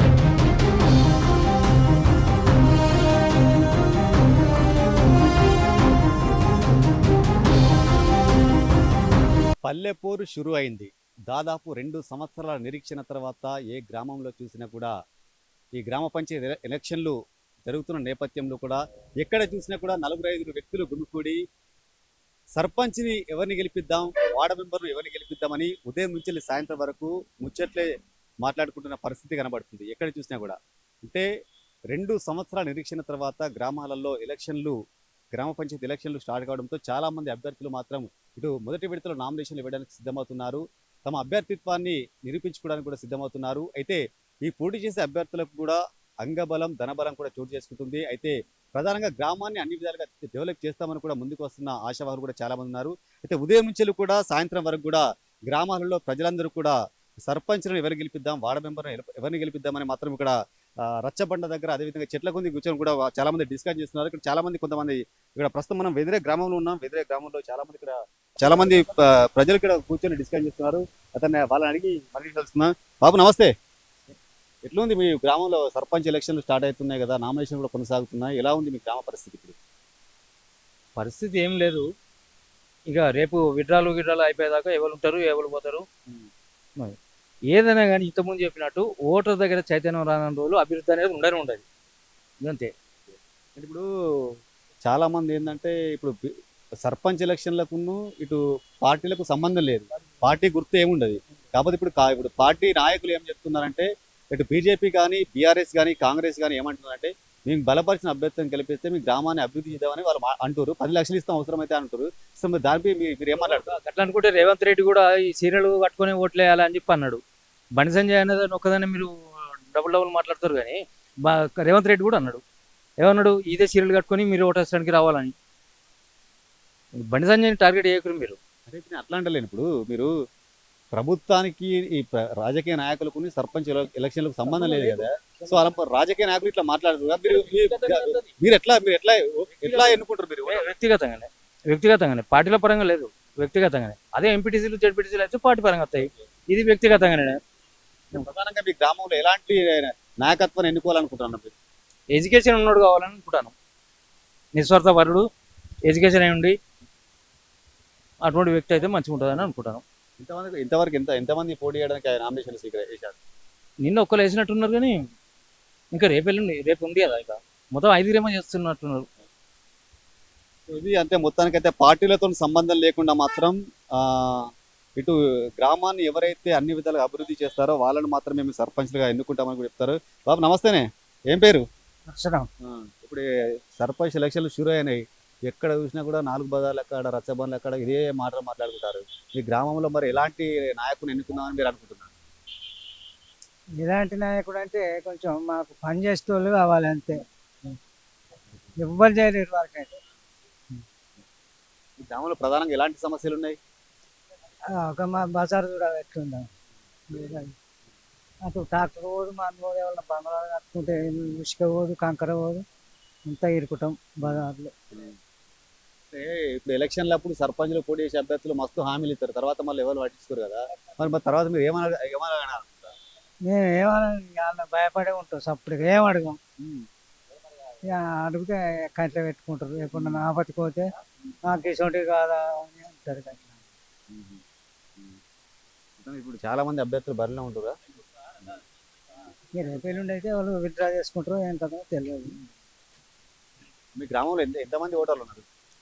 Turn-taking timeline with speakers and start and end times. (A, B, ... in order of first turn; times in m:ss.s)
0:09.6-0:14.9 A
0:15.8-0:17.1 A
0:17.7-0:21.4 A
0:22.6-0:27.9 A
0:28.4-0:31.2 A
0:31.9-0:34.8 A
0:35.3-0:56.7 A
0:57.3-1:00.3 A
1:00.8-1:13.5 A
1:14.6-1:19.6 A
1:21.0-1:21.8 B
1:22.9-1:25.8 B
1:27.5-1:31.6 B
1:32.4-1:32.7 B
1:33.6-1:33.8 A
1:34.8-1:36.1 A
1:36.8-1:53.7 A
1:53.4-1:57.2 B
1:57.7-2:02.4 B
2:03.0-2:05.3 B
2:06.9-2:08.4 B
2:08.7-2:10.1 A
2:10.9-2:20.6 A
2:14.6-2:15.0 B
2:17.7-2:18.2 B
2:19.5-2:27.4 B
2:28.1-2:31.5 A
2:32.1-2:33.5 B
2:34.5-2:35.3 B
2:35.8-2:36.6 B
2:38.2-2:39.8 B
2:40.2-2:43.2 A
2:43.8-2:45.1 B
2:45.9-2:49.1 B
2:50.7-3:01.6 A
3:02.1-3:02.5 C
3:02.6-3:03.2 A
3:03.8-3:12.1 A
3:13.8-3:17.2 C
3:18.8-3:20.0 C
3:22.0-3:23.6 A
3:24.8-3:26.5 C
3:27.1-3:27.5 C
3:28.4-3:32.6 C
3:33.3-3:34.7 C
3:36.1-3:42.9 A
3:43.4-3:46.4 C
3:46.6-3:46.8 A
3:47.8-3:50.9 C
3:51.5-3:53.5 C
3:54.1-3:54.4 A
3:56.0-3:57.7 A
3:59.6-4:02.3 C
4:04.0-4:05.4 A